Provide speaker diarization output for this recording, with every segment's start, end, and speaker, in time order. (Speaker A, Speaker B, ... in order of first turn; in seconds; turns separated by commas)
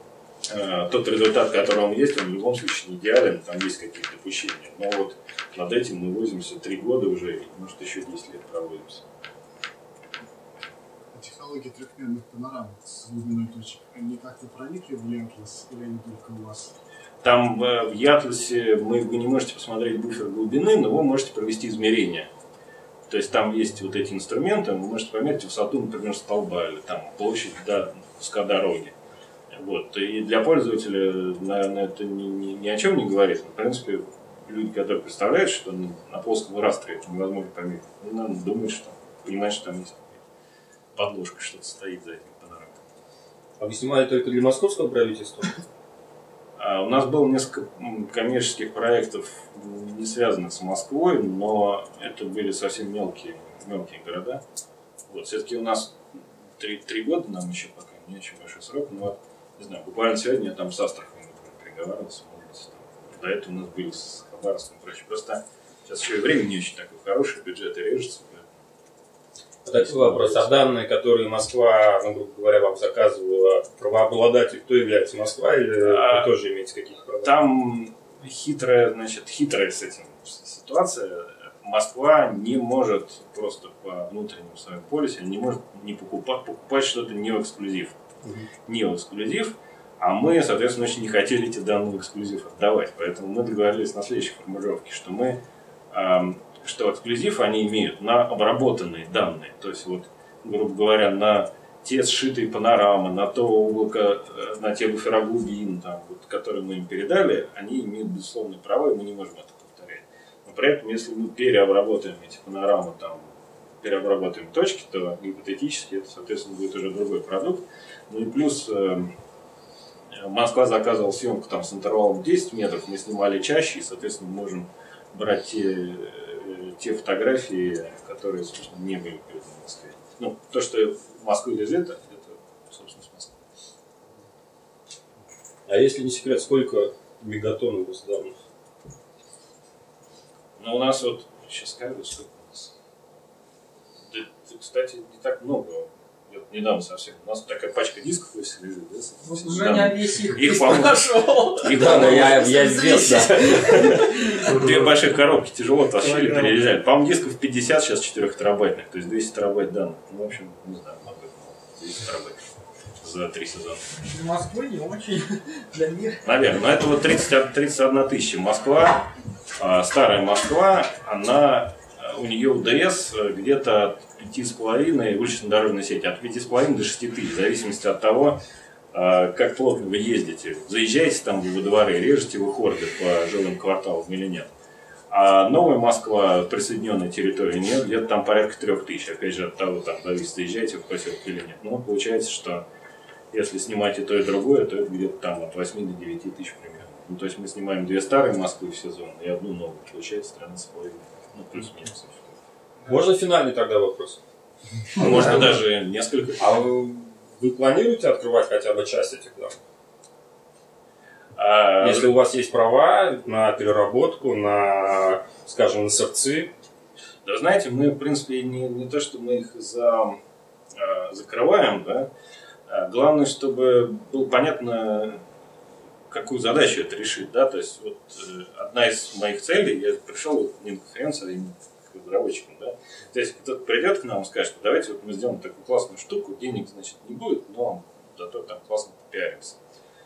Speaker A: 0.5-9.1, Speaker B: 11.1-16.7, Speaker A: 17.2-22.3, Speaker A: 23.1-28.9, Speaker A: 29.5-40.2, Speaker A: 41.0-42.8, Speaker C: 43.6-45.6, Speaker A: 46.6-54.4, Speaker A: 55.1-68.6, Speaker C: 69.7-77.3, Speaker A: 69.7-70.7, Speaker A: 75.8-76.3, Speaker A: 77.2-88.0, Speaker A: 88.7-95.4, Speaker A: 95.9-113.3, Speaker A: 113.8-119.1, Speaker A: 120.1-133.4, Speaker C: 135.7-138.4, Speaker A: 140.6-142.7, Speaker A: 144.1-152.7, Speaker D: 149.2-154.6, Speaker C: 151.6-154.8, Speaker A: 154.2-162.4, Speaker D: 156.1-156.5, Speaker A: 163.0-163.9, Speaker D: 164.1-166.2, Speaker A: 166.2-169.1, Speaker A: 169.6-178.4, Speaker A: 178.9-184.5, Speaker A: 185.1-192.7, Speaker A: 193.3-202.4, Speaker C: 202.9-204.2, Speaker A: 205.0-206.6, Speaker C: 205.0-205.5, Speaker C: 206.4-209.6, Speaker A: 211.4-212.2, Speaker C: 211.8-216.5, Speaker A: 217.2-220.2, Speaker A: 220.7-222.1, Speaker A: 222.7-225.2, Speaker A: 226.1-239.6